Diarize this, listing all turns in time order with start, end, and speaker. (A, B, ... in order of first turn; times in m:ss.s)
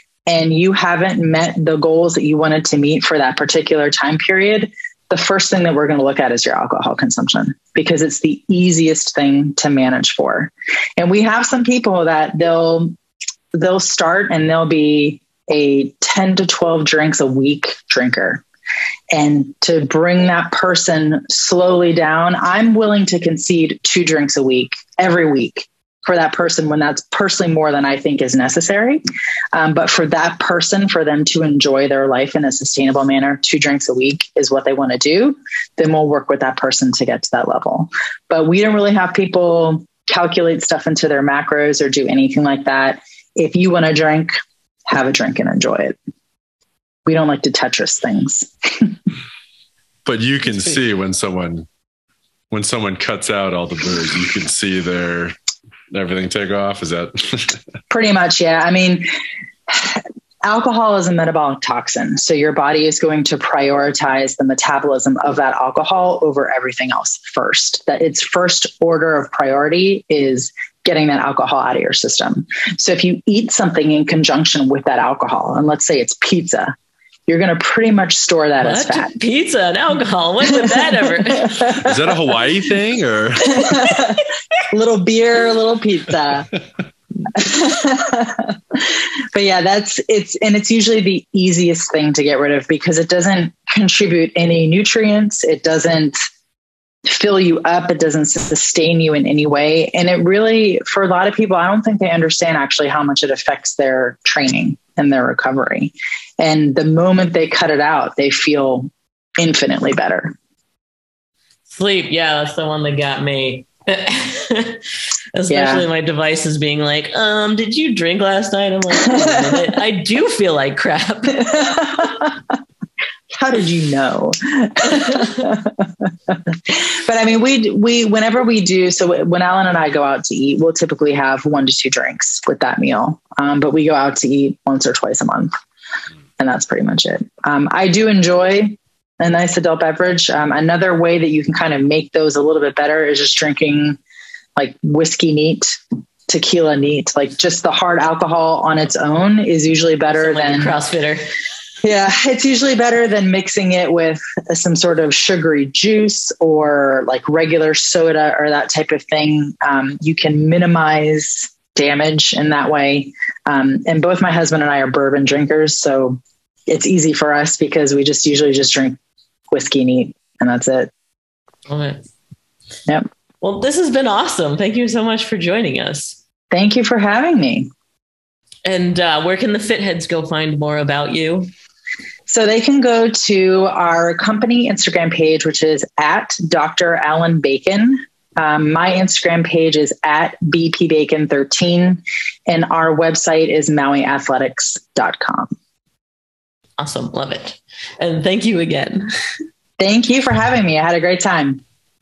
0:00.3-0:12.9 A
0:13.5-0:18.4 A
0:19.1-0:29.0 A
0:29.5-0:44.4 A
0:44.9-0:46.0 A
0:47.1-0:49.0 A
0:50.1-0:51.7 B
0:52.5-0:55.4 B
0:55.9-0:57.6 B
0:57.9-0:59.1 A
0:59.7-1:16.8 A
1:17.3-1:19.1 A
1:18.6-1:21.8 C
1:20.5-1:22.0 A
1:21.7-1:23.9 B
1:23.5-1:26.5 A
1:27.3-1:36.2 A
1:37.1-1:50.4 A
1:51.7-2:01.6 C
1:55.5-1:55.8 A
1:59.2-1:59.5 A
2:01.5-2:02.4 A
2:03.3-2:15.5 A
2:05.1-2:05.3 C
2:16.4-2:24.0 A
2:24.6-2:30.8 A
2:30.1-2:31.3 C
2:31.8-2:49.0 A
2:49.5-2:50.9 A
2:51.7-2:52.0 C
2:53.4-2:56.2 C
2:56.5-2:57.7 A
2:58.6-3:01.5 C
3:02.3-3:15.5 A
3:16.8-3:19.1 C
3:19.8-3:21.6 A